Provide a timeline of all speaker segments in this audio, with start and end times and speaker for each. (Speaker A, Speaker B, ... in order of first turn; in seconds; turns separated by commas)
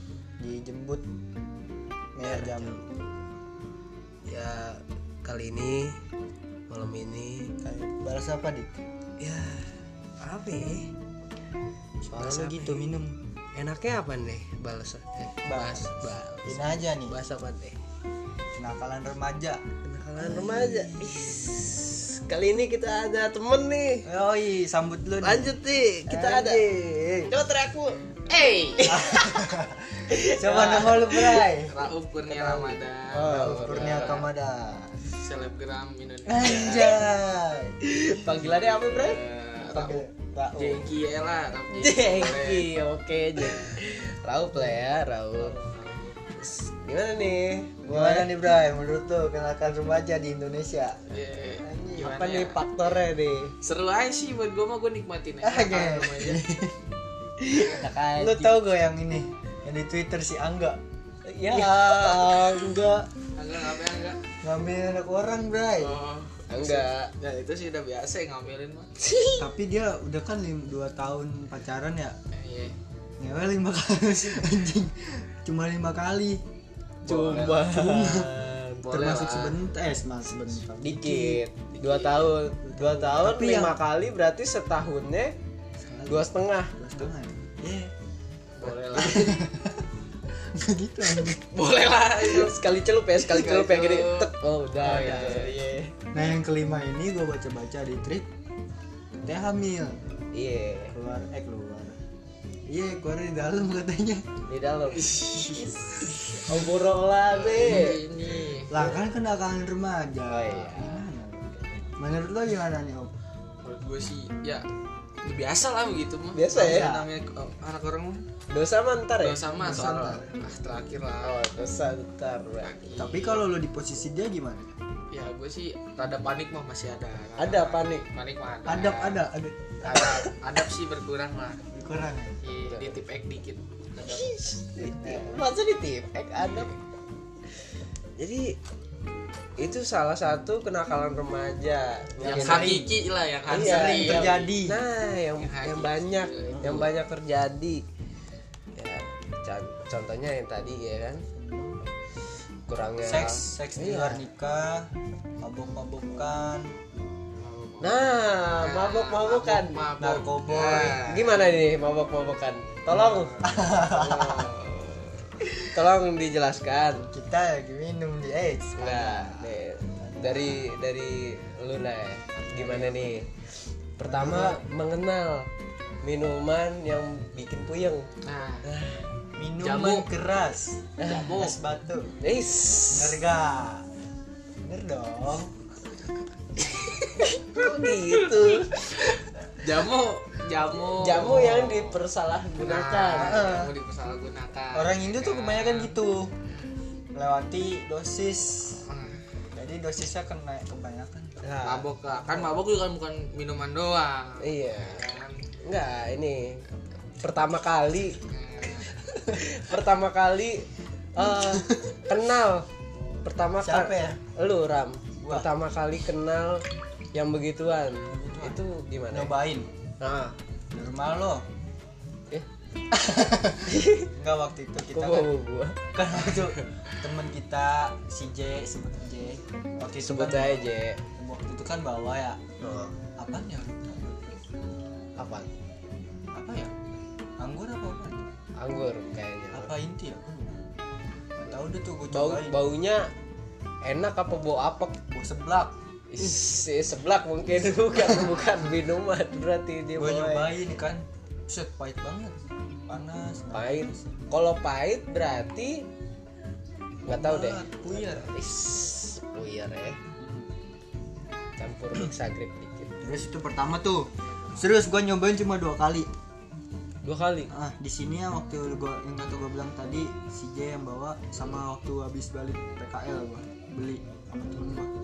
Speaker A: 0.4-1.1, Speaker A: 2.2-2.8, Speaker B: 2.2-3.1, Speaker B: 4.3-6.0, Speaker B: 6.7-7.5, Speaker A: 7.6-8.7, Speaker B: 9.2-10.9, Speaker A: 12.0-13.2, Speaker B: 12.1-12.9, Speaker B: 13.6-17.8, Speaker A: 15.4-17.1, Speaker A: 18.5-19.6, Speaker B: 19.8-24.1, Speaker A: 20.2-21.6, Speaker A: 24.1-25.6, Speaker B: 25.2-28.0, Speaker A: 26.1-27.3, Speaker C: 28.3-29.0, Speaker B: 28.8-29.5, Speaker A: 28.9-31.7, Speaker B: 30.1-31.5, Speaker C: 31.7-34.3, Speaker A: 32.3-35.0, Speaker B: 33.1-34.2, Speaker C: 35.1-37.0, Speaker A: 36.3-37.8, Speaker B: 36.5-37.0, Speaker B: 37.8-39.2, Speaker C: 38.3-42.7, Speaker A: 39.7-40.9, Speaker B: 41.7-45.6, Speaker A: 45.4-46.1, Speaker B: 46.4-48.3, Speaker A: 47.9-51.1, Speaker C: 51.1-52.6, Speaker A: 51.6-52.1, Speaker B: 52.0-53.5, Speaker C: 53.6-56.4, Speaker A: 55.4-56.8, Speaker B: 57.4-58.6, Speaker A: 57.5-60.8, Speaker B: 61.2-63.0, Speaker A: 61.5-63.0, Speaker C: 63.4-64.2, Speaker A: 64.4-66.0, Speaker C: 65.8-68.9, Speaker B: 66.5-67.1, Speaker B: 69.0-69.5, Speaker A: 69.4-72.2, Speaker C: 72.3-72.8, Speaker A: 73.2-76.4, Speaker A: 77.0-78.3, Speaker B: 77.0-79.5, Speaker A: 78.9-81.4, Speaker C: 79.0-79.5, Speaker B: 80.8-85.3, Speaker C: 81.7-82.4, Speaker A: 82.7-83.8, Speaker A: 85.8-87.9, Speaker B: 86.1-87.1, Speaker C: 88.6-89.3, Speaker B: 88.6-89.2, Speaker A: 88.9-89.8, Speaker A: 90.5-91.4, Speaker C: 91.3-92.5, Speaker B: 92.1-95.9, Speaker C: 93.2-95.6, Speaker A: 94.9-95.4, Speaker A: 96.1-98.3, Speaker A: 99.2-100.0, Speaker B: 100.3-101.0, Speaker A: 100.9-102.0, Speaker A: 102.7-104.3, Speaker B: 104.5-105.8, Speaker C: 105.0-105.7, Speaker A: 105.5-106.7, Speaker B: 106.3-108.0, Speaker C: 107.3-109.0, Speaker A: 107.7-107.9, Speaker A: 108.7-113.1, Speaker B: 110.3-111.1, Speaker C: 113.6-114.7, Speaker C: 115.2-118.2, Speaker B: 116.3-117.0, Speaker A: 116.5-117.1, Speaker B: 118.5-119.8, Speaker C: 119.2-121.4, Speaker A: 119.5-120.3, Speaker B: 121.2-123.0, Speaker C: 122.6-123.5, Speaker A: 123.0-124.7, Speaker C: 125.1-129.3, Speaker B: 127.4-128.1, Speaker A: 128.7-130.2, Speaker C: 129.8-131.6, Speaker B: 129.9-130.2, Speaker A: 131.7-132.3, Speaker C: 132.4-134.4, Speaker B: 132.7-133.0, Speaker B: 134.0-136.7, Speaker A: 135.0-135.5, Speaker C: 136.4-136.8, Speaker B: 138.2-138.6, Speaker B: 139.6-142.9, Speaker A: 142.2-143.0, Speaker C: 142.2-144.5, Speaker B: 143.5-147.8, Speaker A: 143.5-144.8, Speaker C: 145.4-146.9, Speaker A: 146.5-146.8, Speaker B: 148.8-151.2, Speaker A: 151.3-151.8, Speaker B: 152.7-154.2, Speaker A: 153.0-154.9, Speaker A: 155.4-156.7, Speaker C: 157.4-161.7, Speaker B: 157.8-159.8, Speaker A: 160.0-161.0, Speaker B: 161.0-167.1, Speaker C: 162.9-163.7, Speaker A: 163.4-164.5, Speaker A: 167.1-170.7, Speaker B: 168.8-173.3, Speaker C: 172.4-173.2, Speaker B: 174.0-175.5, Speaker A: 174.0-174.7, Speaker B: 176.0-178.1, Speaker C: 178.2-178.7, Speaker B: 178.6-179.0, Speaker A: 179.4-182.1, Speaker C: 179.6-180.1, Speaker B: 181.0-181.3, Speaker C: 181.1-181.6, Speaker B: 182.2-183.2, Speaker A: 182.9-183.9, Speaker A: 184.6-185.5, Speaker B: 187.2-189.1, Speaker C: 187.6-192.0, Speaker B: 191.0-193.5, Speaker A: 191.2-191.7, Speaker C: 192.6-196.0, Speaker A: 193.2-193.7, Speaker A: 194.7-196.3, Speaker A: 197.1-198.8, Speaker C: 198.8-199.2, Speaker A: 199.5-201.3, Speaker B: 201.4-201.9, Speaker C: 201.6-205.4, Speaker B: 204.4-205.1, Speaker B: 205.6-206.6, Speaker B: 207.2-208.2, Speaker C: 208.3-208.9, Speaker B: 209.3-212.7, Speaker A: 211.2-212.0, Speaker B: 213.2-216.6, Speaker A: 213.6-214.2, Speaker A: 215.2-215.5, Speaker B: 217.1-219.4, Speaker A: 218.1-219.7, Speaker B: 220.0-220.3, Speaker A: 220.7-221.4, Speaker A: 222.9-225.3, Speaker B: 223.7-224.1, Speaker B: 224.8-225.8, Speaker A: 225.9-232.4, Speaker B: 230.0-231.0, Speaker B: 232.6-232.9, Speaker A: 233.2-234.3, Speaker B: 235.2-235.5, Speaker A: 236.3-236.7, Speaker A: 237.4-238.3, Speaker B: 238.6-239.7, Speaker A: 239.5-240.6, Speaker A: 241.4-242.6, Speaker B: 242.1-243.1, Speaker B: 243.8-245.0, Speaker A: 245.1-245.7, Speaker B: 246.1-250.5, Speaker A: 250.0-252.3, Speaker A: 252.9-254.1, Speaker B: 253.5-255.9, Speaker A: 257.1-258.4, Speaker B: 257.1-260.0, Speaker A: 260.2-260.5, Speaker B: 261.6-262.9, Speaker A: 263.0-266.1, Speaker B: 267.0-267.5, Speaker A: 267.5-274.9